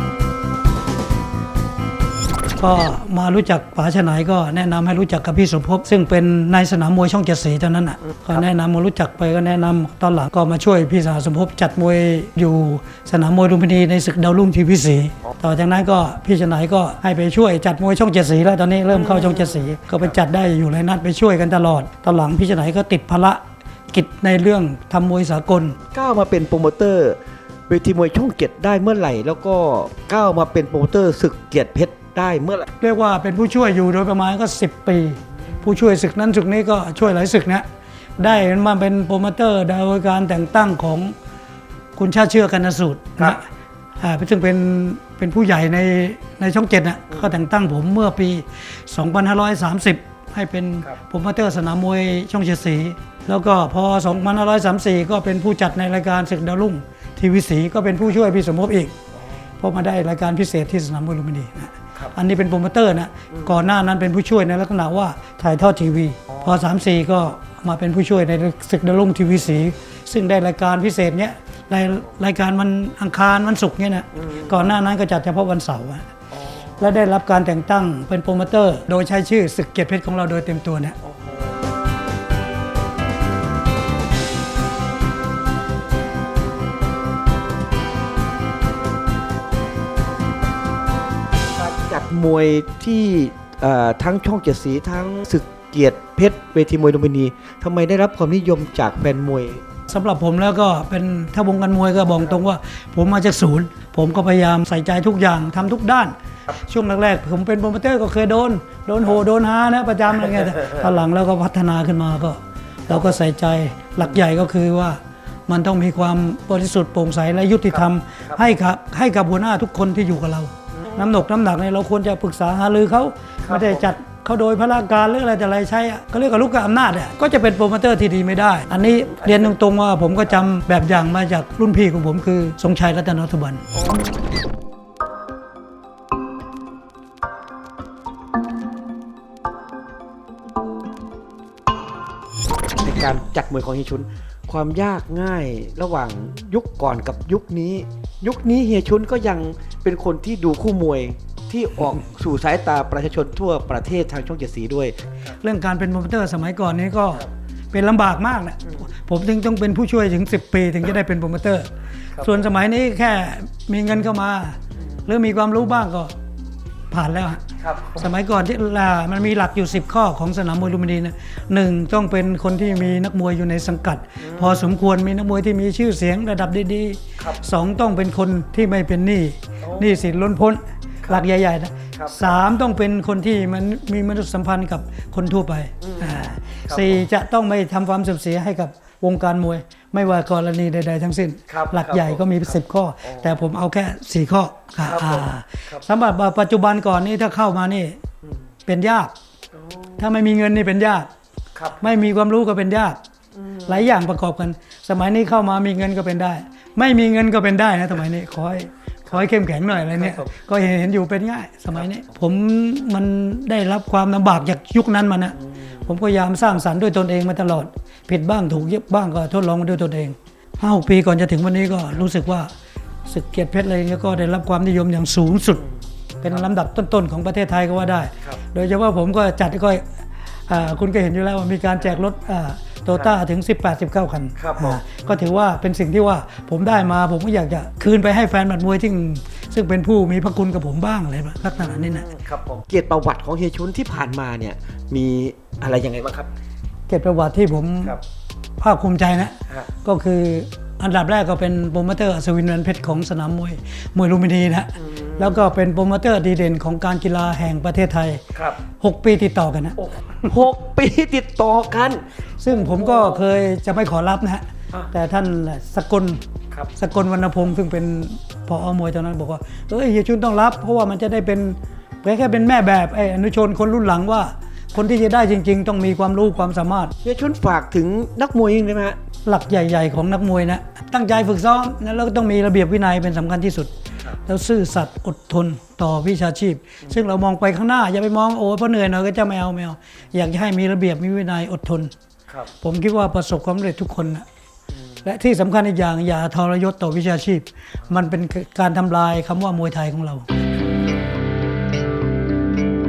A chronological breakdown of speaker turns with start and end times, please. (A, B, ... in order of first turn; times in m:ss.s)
0:02.6-0:25.8 A
0:18.9-0:20.1 B
0:25.9-0:32.7 B
0:32.8-0:37.6 A
0:38.2-0:41.1 A
0:42.0-0:43.4 A
0:44.0-0:58.9 A
0:59.6-1:16.1 A
1:06.3-1:06.6 B
1:16.3-1:16.9 B
1:16.8-1:21.0 A
1:21.0-1:21.5 B
1:31.5-1:39.6 B
1:39.9-2:13.6 A
2:03.4-2:03.8 B
2:13.8-2:14.0 B
2:22.8-2:35.0 B
2:35.3-2:46.1 A
2:46.9-3:18.0 A
2:47.6-2:48.0 B
2:54.2-2:54.7 B
2:59.6-2:59.9 B
3:01.9-3:02.4 B
3:05.8-3:07.0 B
3:11.5-3:12.5 B
3:13.0-3:13.4 B
3:14.8-3:15.8 B
3:18.7-3:19.1 A
3:19.5-3:19.9 B
3:20.0-3:21.1 A
3:21.5-3:21.9 B
3:21.8-3:23.0 A
3:23.4-3:23.9 B
3:23.6-3:42.5 A
3:30.0-3:30.3 B
3:43.0-3:45.6 A
3:46.2-3:49.8 A
3:50.5-4:02.1 A
3:54.4-3:54.8 B
4:01.4-4:06.3 B
4:06.9-4:08.0 A
4:08.6-4:18.2 A
4:14.8-4:15.5 B
4:18.3-4:18.6 B
4:18.8-4:19.8 A
4:19.8-4:23.2 B
4:22.4-4:26.2 A
4:26.7-4:36.9 A
4:37.0-4:39.0 B
4:39.2-4:43.7 A
4:44.2-4:51.9 A
4:52.6-4:54.2 A
4:55.0-5:00.3 A